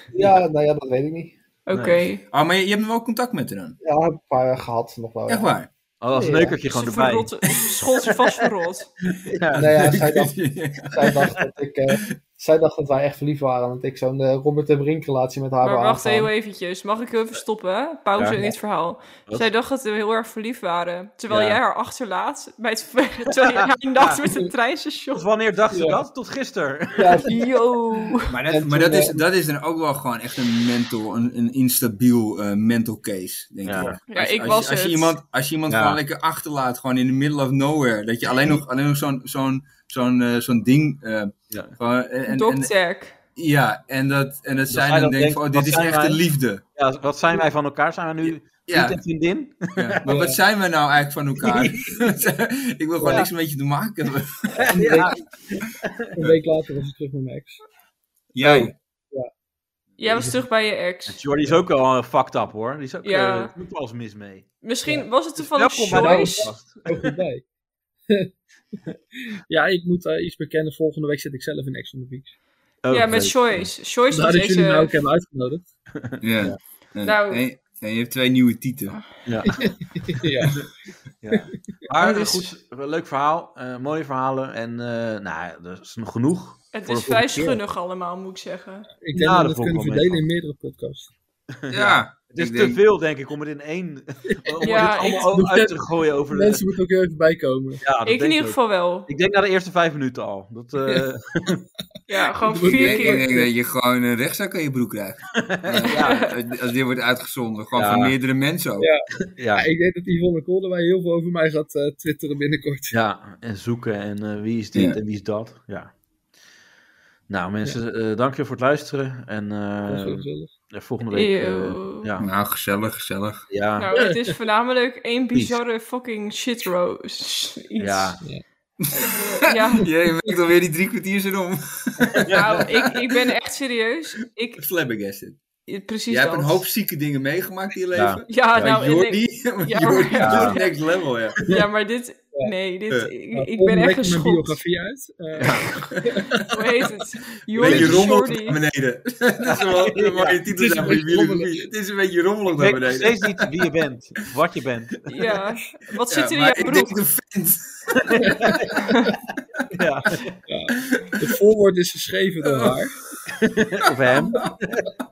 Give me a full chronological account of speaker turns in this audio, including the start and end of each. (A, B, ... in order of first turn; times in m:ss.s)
0:00.2-0:01.4 A
0:01.7-0:02.2 B
0:01.7-0:02.0 C
0:02.3-0:03.8 D
0:03.8-0:05.5 A
0:05.3-0:05.7 D
0:06.0-0:07.3 C
0:06.1-0:06.6 A
0:06.7-0:08.9 B
0:09.1-0:09.9 C
0:09.5-0:11.2 D
0:09.6-0:16.3 A
0:15.6-0:25.2 B
0:21.3-0:21.6 C
0:23.5-0:24.2 C
0:25.1-0:27.3 C
0:25.7-0:26.0 A
0:27.0-0:27.6 A
0:27.2-0:28.3 B
0:28.3-0:42.7 D
0:28.5-0:29.2 A
0:33.6-0:34.0 C
0:34.1-0:35.1 B
0:35.7-0:36.0 C
0:42.3-0:43.2 B
0:43.4-0:46.6 D
0:44.7-0:46.2 C
0:46.7-0:50.1 C
0:48.6-0:49.0 D
0:49.8-0:55.0 D
0:50.0-0:50.4 A
0:51.4-0:52.1 C
0:53.0-0:53.3 C
0:54.5-0:56.1 C
0:54.7-0:55.2 A
0:56.2-0:57.6 A
0:58.3-0:58.7 D
0:58.4-0:58.7 C
1:00.0-1:01.2 B
1:01.1-1:04.4 C
1:03.0-1:03.5 B
1:04.6-1:06.7 B
1:05.4-1:07.2 C
1:05.9-1:07.4 A
1:09.5-1:12.3 A
1:12.8-1:13.7 C
1:12.9-1:15.0 B
1:14.1-1:15.6 A
1:16.0-1:16.6 C
1:16.2-1:19.0 D
1:17.0-1:17.4 B
1:19.2-1:19.6 C
1:19.4-1:20.7 A
1:21.2-1:27.6 C
1:22.0-1:22.4 B
1:26.7-1:28.9 B
1:29.0-1:31.1 A
1:29.1-1:30.2 C
1:31.6-1:36.6 C
1:31.7-1:32.8 D
1:34.5-1:37.8 A
1:34.6-1:35.4 B
1:37.8-1:41.6 C
1:38.0-1:39.1 B
1:42.1-1:43.3 B
1:42.4-1:43.5 A
1:42.6-1:48.9 D
1:45.5-1:46.3 C
1:45.9-1:46.3 B
1:47.7-1:48.1 C
1:48.8-1:53.0 A
1:49.4-1:49.7 C
1:52.9-1:55.9 C
1:57.3-2:02.3 C
1:59.9-2:00.5 A
2:01.1-2:02.1 B
2:02.2-2:03.4 D
2:03.5-2:03.9 C
2:03.8-2:08.2 B
2:05.3-2:05.6 C
2:07.8-2:08.2 C
2:08.8-2:13.3 D
2:09.0-2:09.9 B
2:12.2-2:12.6 C
2:12.3-2:14.6 B
2:14.6-2:15.4 D
2:15.7-2:16.6 B
2:16.1-2:21.4 D
2:17.9-2:18.2 C
2:18.3-2:24.6 B
2:20.2-2:20.6 C
2:23.3-2:26.5 A
2:25.4-2:25.6 C
2:25.7-2:28.6 B
2:27.5-2:33.5 D
2:27.6-2:28.2 C
2:29.4-2:30.4 C
2:30.5-2:31.7 A
2:32.5-2:34.9 C
2:35.1-2:37.0 B
2:36.1-2:38.1 D
2:38.0-2:38.8 C
2:38.2-2:39.1 A
2:38.8-2:39.1 B
2:39.7-2:40.4 C
2:40.5-2:43.0 A
2:40.8-2:41.3 D
2:42.4-2:42.8 D
2:43.3-2:44.9 C
2:44.1-2:44.6 D